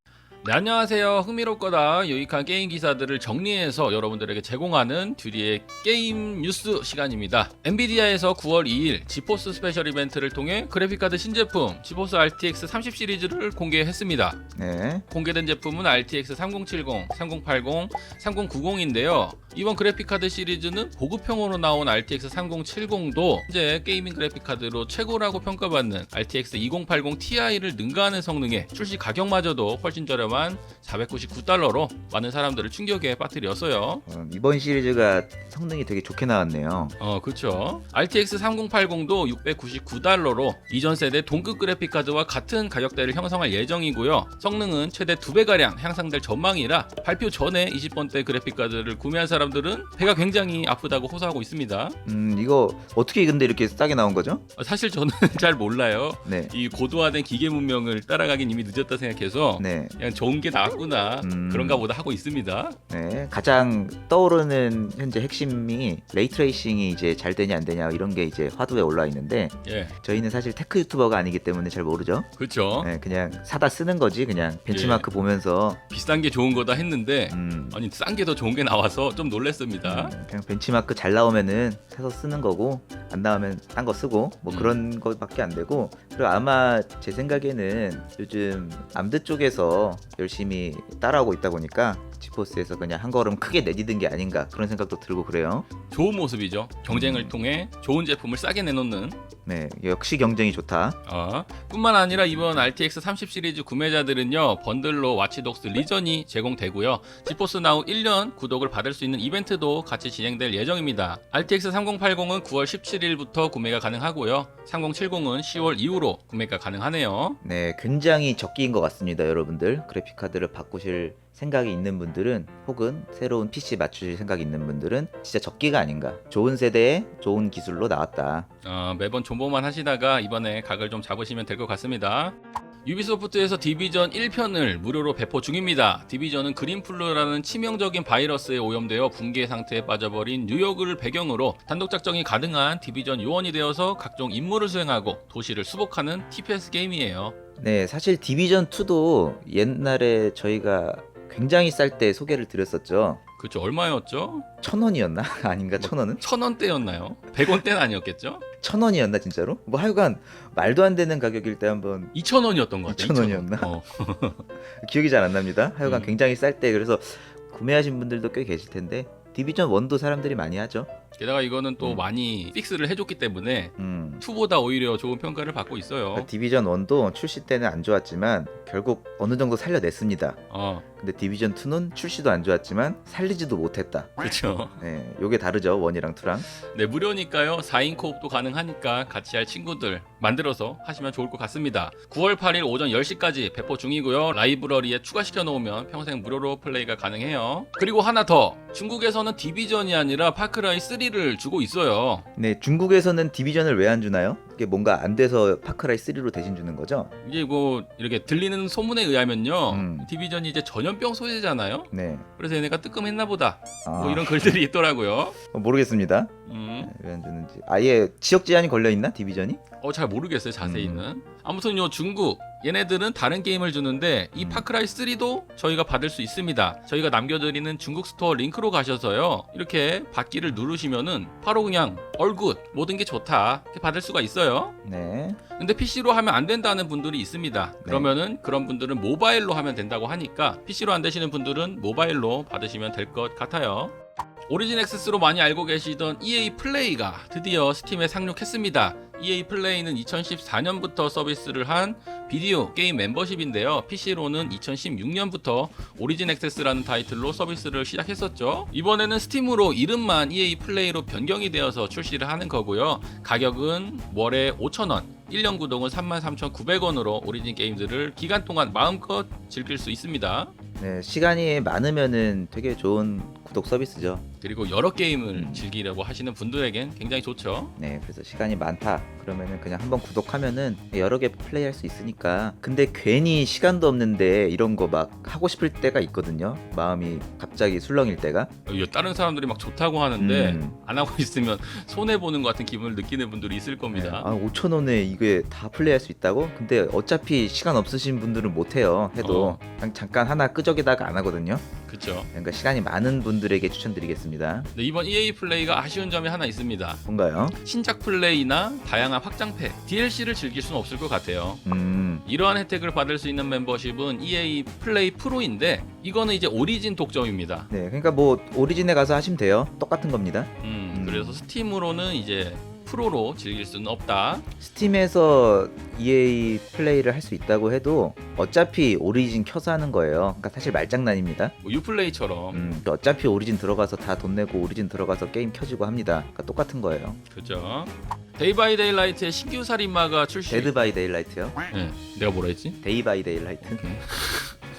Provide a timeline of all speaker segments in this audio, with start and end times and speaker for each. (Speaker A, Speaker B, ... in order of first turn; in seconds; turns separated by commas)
Speaker A: 0.4-14.4, Speaker B: 14.6-15.0, Speaker A: 15.1-34.0, Speaker B: 34.1-37.0, Speaker A: 37.0-52.0, Speaker B: 52.1-54.4, Speaker A: 54.6-62.8, Speaker B: 56.2-56.5, Speaker B: 59.6-60.0, Speaker B: 61.2-61.8, Speaker B: 62.9-72.3, Speaker A: 69.6-69.9, Speaker A: 72.4-72.9, Speaker B: 72.8-75.8, Speaker A: 74.7-75.1, Speaker A: 75.9-80.1, Speaker B: 77.3-77.8, Speaker B: 79.8-95.7, Speaker A: 84.5-84.8, Speaker A: 95.9-99.2, Speaker B: 96.9-97.3, Speaker B: 99.5-101.0, Speaker A: 101.1-117.4, Speaker B: 117.4-128.5, Speaker A: 128.6-147.3, Speaker B: 147.6-153.2, Speaker A: 153.4-154.5, Speaker B: 154.6-156.2, Speaker A: 155.8-158.4, Speaker B: 158.6-162.1, Speaker A: 162.1-164.4, Speaker B: 162.9-163.7, Speaker B: 164.6-170.9, Speaker A: 165.8-166.2, Speaker A: 171.2-176.3, Speaker B: 171.8-172.1, Speaker B: 173.8-174.2, Speaker B: 176.1-180.4, Speaker A: 180.5-180.8, Speaker B: 181.0-186.5, Speaker A: 184.2-184.8, Speaker A: 186.5-202.3, Speaker B: 202.4-207.1, Speaker A: 207.2-215.4, Speaker B: 209.7-210.1, Speaker B: 211.9-212.3, Speaker B: 213.9-214.6, Speaker B: 215.5-219.6, Speaker A: 216.5-216.9, Speaker A: 219.8-234.8, Speaker B: 220.6-221.1, Speaker B: 224.4-224.7, Speaker B: 234.8-235.4, Speaker A: 235.6-244.0, Speaker B: 237.8-238.1, Speaker A: 244.5-270.5, Speaker B: 270.8-274.2, Speaker A: 274.4-277.7, Speaker B: 275.3-275.7, Speaker B: 277.8-288.5, Speaker A: 288.7-294.3, Speaker B: 290.2-290.8, Speaker B: 293.9-301.6, Speaker A: 299.2-299.6, Speaker A: 301.9-302.3, Speaker B: 302.3-304.7, Speaker A: 304.8-307.0, Speaker B: 307.1-307.6, Speaker A: 307.6-311.6, Speaker B: 311.7-312.2, Speaker A: 312.3-317.7, Speaker B: 317.7-321.4, Speaker A: 320.6-324.5, Speaker B: 324.6-331.5, Speaker A: 331.6-332.6, Speaker B: 332.5-337.2, Speaker A: 337.3-340.7, Speaker B: 340.5-341.6, Speaker A: 341.7-342.8, Speaker B: 342.8-343.9, Speaker A: 343.6-344.6